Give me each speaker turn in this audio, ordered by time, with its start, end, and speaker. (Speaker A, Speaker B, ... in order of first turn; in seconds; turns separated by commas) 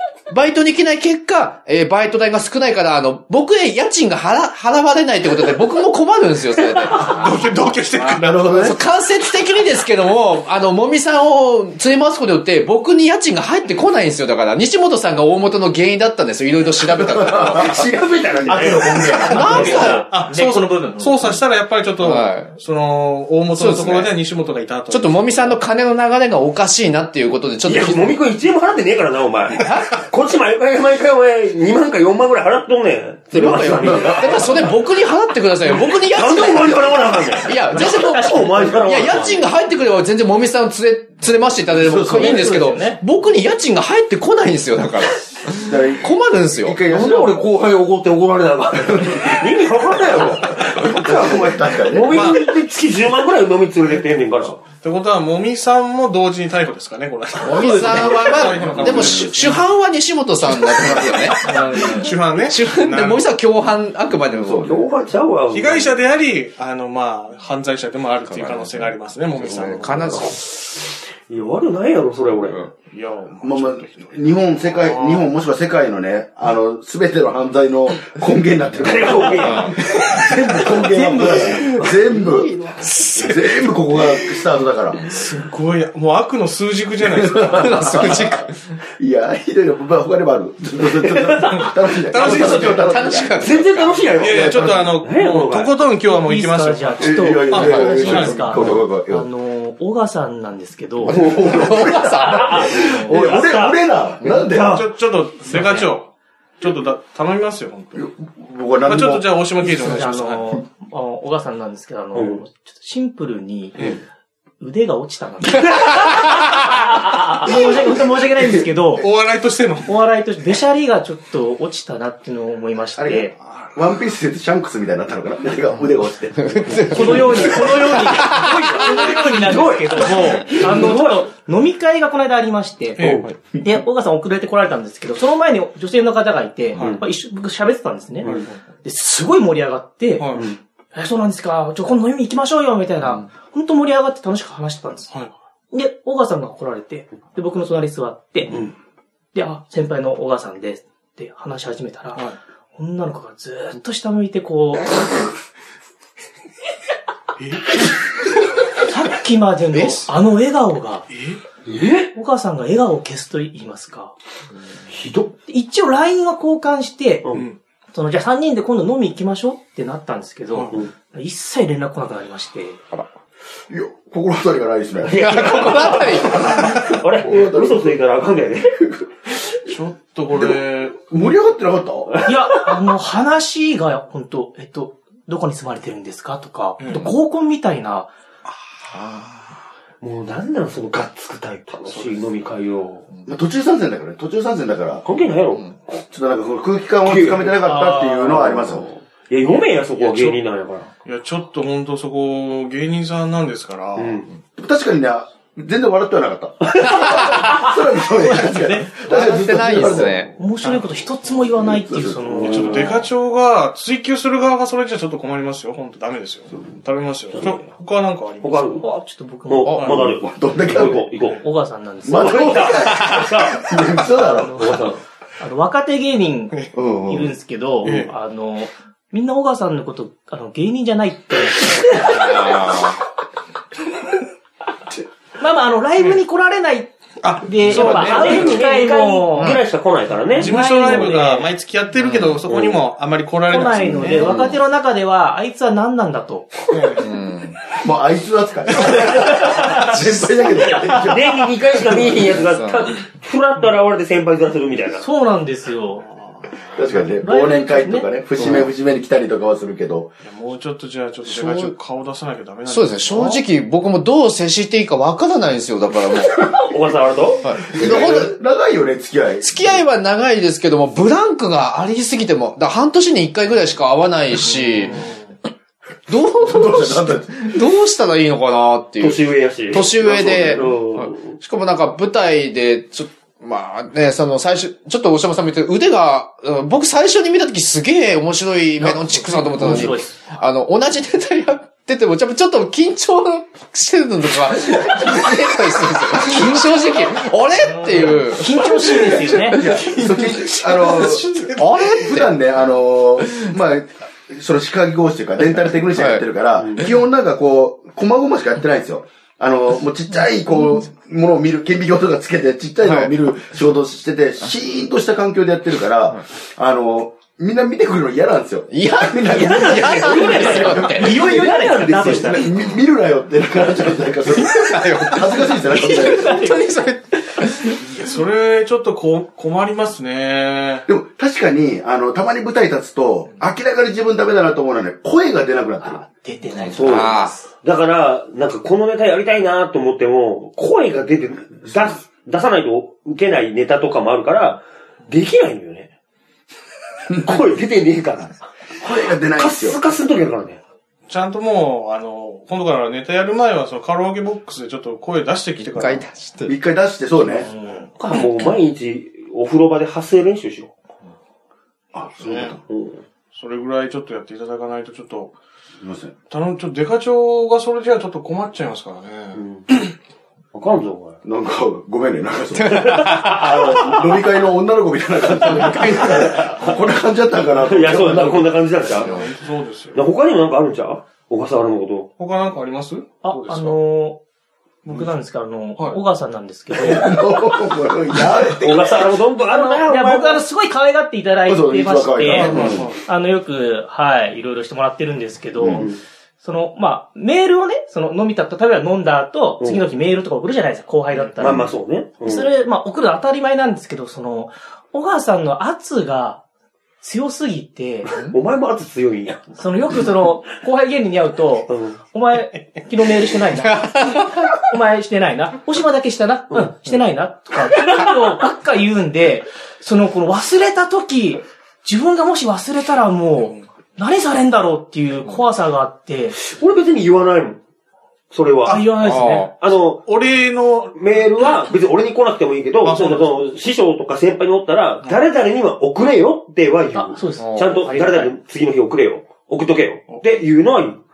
Speaker A: 0.3-7.3, Speaker B: 6.8-8.7, Speaker C: 8.0-8.8, Speaker A: 8.5-17.8, Speaker C: 16.8-19.7, Speaker D: 17.5-20.0, Speaker E: 18.5-21.2, Speaker A: 19.2-20.1, Speaker B: 19.4-25.6, Speaker A: 22.0-22.5, Speaker A: 23.5-24.1, Speaker A: 24.9-28.2, Speaker D: 27.6-34.7, Speaker A: 29.6-29.9, Speaker A: 33.3-36.9, Speaker C: 33.5-34.6, Speaker D: 35.8-39.4, Speaker A: 37.4-46.8, Speaker E: 37.9-38.7, Speaker C: 41.8-42.6, Speaker E: 41.8-43.0, Speaker C: 45.6-47.5, Speaker D: 46.9-54.6, Speaker C: 49.0-49.4, Speaker C: 50.5-52.3, Speaker B: 52.1-52.4, Speaker B: 54.8-59.6, Speaker A: 57.4-64.8, Speaker C: 58.4-59.4, Speaker C: 60.8-61.3, Speaker B: 60.8-63.3, Speaker C: 64.3-64.9, Speaker D: 64.6-66.0, Speaker B: 65.5-70.4, Speaker A: 68.3-70.4, Speaker D: 71.3-72.7, Speaker B: 72.9-75.3, Speaker C: 73.4-82.5, Speaker D: 78.8-80.5, Speaker A: 79.4-79.8, Speaker E: 80.8-82.0, Speaker A: 81.5-83.6, Speaker C: 83.1-85.0, Speaker B: 85.0-88.1, Speaker C: 87.0-93.4, Speaker A: 87.5-88.5, Speaker B: 91.5-92.9, Speaker A: 92.2-94.1, Speaker D: 93.4-95.7, Speaker C: 94.1-94.9, Speaker B: 94.2-98.6, Speaker E: 96.1-101.4, Speaker C: 97.0-99.3, Speaker A: 97.8-98.8, Speaker C: 101.1-104.8, Speaker A: 101.1-102.6, Speaker D: 101.1-104.9, Speaker E: 102.7-103.3, Speaker B: 104.7-108.1, Speaker D: 105.5-105.8, Speaker C: 108.0-109.3, Speaker B: 108.9-110.6, Speaker E: 109.6-113.9, Speaker D: 112.1-112.4, Speaker E: 114.6-119.1, Speaker A: 116.1-116.5, Speaker C: 117.4-118.0, Speaker B: 119.0-119.9, Speaker E: 119.8-123.3, Speaker C: 123.0-127.9, Speaker A: 126.4-129.2, Speaker E: 126.8-138.3, Speaker B: 128.8-130.6, Speaker D: 129.3-131.2, Speaker B: 133.0-133.3, Speaker D: 133.0-133.3, Speaker D: 136.8-137.0, Speaker B: 138.2-138.6, Speaker D: 138.2-138.5, Speaker E: 138.8-140.4, Speaker B: 140.2-140.5, Speaker E: 140.9-145.1, Speaker E: 145.7-148.6, Speaker D: 148.5-148.7, Speaker E: 149.3-155.0, Speaker B: 157.4-157.7, Speaker E: 158.8-161.1, Speaker B: 161.1-161.4, Speaker D: 161.7-162.1, Speaker E: 162.1-164.1, Speaker D: 164.9-165.3, Speaker E: 165.5-167.3, Speaker E: 167.9-172.8, Speaker B: 170.5-170.8, Speaker C: 173.7-175.8, Speaker D: 175.0-178.8, Speaker A: 175.2-176.6, Speaker C: 176.3-178.0, Speaker B: 179.7-181.1, Speaker C: 180.3-182.2, Speaker D: 182.1-182.6, Speaker E: 182.2-188.1, Speaker B: 186.8-187.1, Speaker A: 188.8-189.4, Speaker D: 190.0-193.1, Speaker B: 191.9-192.2, Speaker C: 193.3-195.0, Speaker D: 195.0-195.7, Speaker C: 196.0-198.9, Speaker D: 197.0-200.9, Speaker B: 199.5-200.4, Speaker B: 201.1-204.2, Speaker D: 204.0-204.3, Speaker C: 204.6-210.3, Speaker D: 206.6-207.4, Speaker A: 207.0-207.7, Speaker E: 208.2-209.0, Speaker A: 209.0-210.3, Speaker E: 210.3-212.9, Speaker C: 211.7-212.9, Speaker D: 212.3-212.9, Speaker B: 212.4-218.8, Speaker D: 217.3-217.6, Speaker D: 218.4-218.9, Speaker E: 218.8-219.9, Speaker D: 219.5-221.5, Speaker B: 219.7-220.1, Speaker C: 219.9-221.1, Speaker E: 221.4-222.7, Speaker C: 222.1-224.7, Speaker D: 222.1-225.0, Speaker E: 224.2-232.6, Speaker C: 226.7-227.3, Speaker B: 227.8-228.1, Speaker A: 232.0-233.0, Speaker E: 235.4-239.6, Speaker B: 237.2-238.6, Speaker D: 237.7-241.0, Speaker A: 239.3-239.6, Speaker E: 240.4-241.5, Speaker B: 240.4-244.3, Speaker A: 242.0-242.4, Speaker D: 242.5-242.8, Speaker E: 243.5-246.7, Speaker A: 244.0-244.6, Speaker B: 246.7-247.1, Speaker A: 247.0-247.6, Speaker C: 247.8-251.4, Speaker E: 249.0-249.9, Speaker D: 250.7-255.1, Speaker C: 251.9-252.2, Speaker A: 252.2-252.9, Speaker E: 255.0-256.1, Speaker B: 256.0-257.1, Speaker C: 256.8-260.1, Speaker E: 257.2-258.1, Speaker A: 258.4-258.7, Speaker B: 260.2-263.4, Speaker A: 261.2-261.7, Speaker A: 262.7-266.6, Speaker D: 266.3-267.5, Speaker A: 267.4-268.4, Speaker C: 267.6-269.8, Speaker A: 269.4-275.1, Speaker B: 274.5-275.2, Speaker A: 276.1-298.6, Speaker C: 276.4-277.5, Speaker D: 279.0-281.4, Speaker E: 288.9-290.2, Speaker E: 297.7-299.8, Speaker B: 297.9-298.3, Speaker C: 299.0-326.5, Speaker B: 299.1-299.8, Speaker A: 299.5-302.3, Speaker B: 300.3-301.7, Speaker A: 305.6-306.3, Speaker A: 312.8-313.1, Speaker A: 318.7-321.3, Speaker D: 319.4-322.4, Speaker E: 319.6-322.5, Speaker A: 324.3-327.8, Speaker E: 325.9-326.6, Speaker B: 327.8-330.9, Speaker C: 330.9-336.0, Speaker E: 335.8-337.5, Speaker A: 336.7-337.4, Speaker D: 336.7-345.9, Speaker D: 347.1-350.6, Speaker C: 348.8-349.8, Speaker B: 351.1-356.1, Speaker A: 355.6-356.6, Speaker C: 356.5-357.5, Speaker E: 357.4-357.9, Speaker B: 357.6-357.9, Speaker D: 358.0-360.7, Speaker C: 361.9-362.6, Speaker B: 362.2-362.6, Speaker D: 362.7-363.0, Speaker B: 363.4-365.4, Speaker C: 365.8-366.1, Speaker B: 366.3-369.4, Speaker D: 369.4-369.7, Speaker D: 370.5-371.2, Speaker C: 371.2-378.6, Speaker A: 372.6-373.4, Speaker D: 372.7-374.1, Speaker A: 375.4-376.1, Speaker D: 375.5-376.8, Speaker D: 377.6-379.2, Speaker B: 378.9-380.0, Speaker D: 379.9-382.1, Speaker B: 382.2-383.8, Speaker E: 383.2-384.2, Speaker E: 384.9-387.3, Speaker C: 386.7-389.2, Speaker D: 388.4-390.4, Speaker E: 389.5-395.9, Speaker C: 391.5-392.9, Speaker B: 392.3-393.0, Speaker C: 395.6-395.9, Speaker D: 395.7-396.0, Speaker E: 396.4-406.4, Speaker D: 399.6-399.9, Speaker D: 401.4-402.5, Speaker E: 407.0-408.3, Speaker D: 408.1-409.5, Speaker E: 409.6-426.4, Speaker D: 411.7-412.0, Speaker A: 413.7-414.5, Speaker D: 416.5-417.0, Speaker D: 426.3-427.6, Speaker D: 428.3-430.0, Speaker B: 428.6-429.4, Speaker E: 428.6-429.5, Speaker A: 429.0-429.5, Speaker B: 429.9-431.5, Speaker D: 431.0-441.0, Speaker B: 432.8-433.4, Speaker E: 436.9-438.3, Speaker A: 437.4-437.8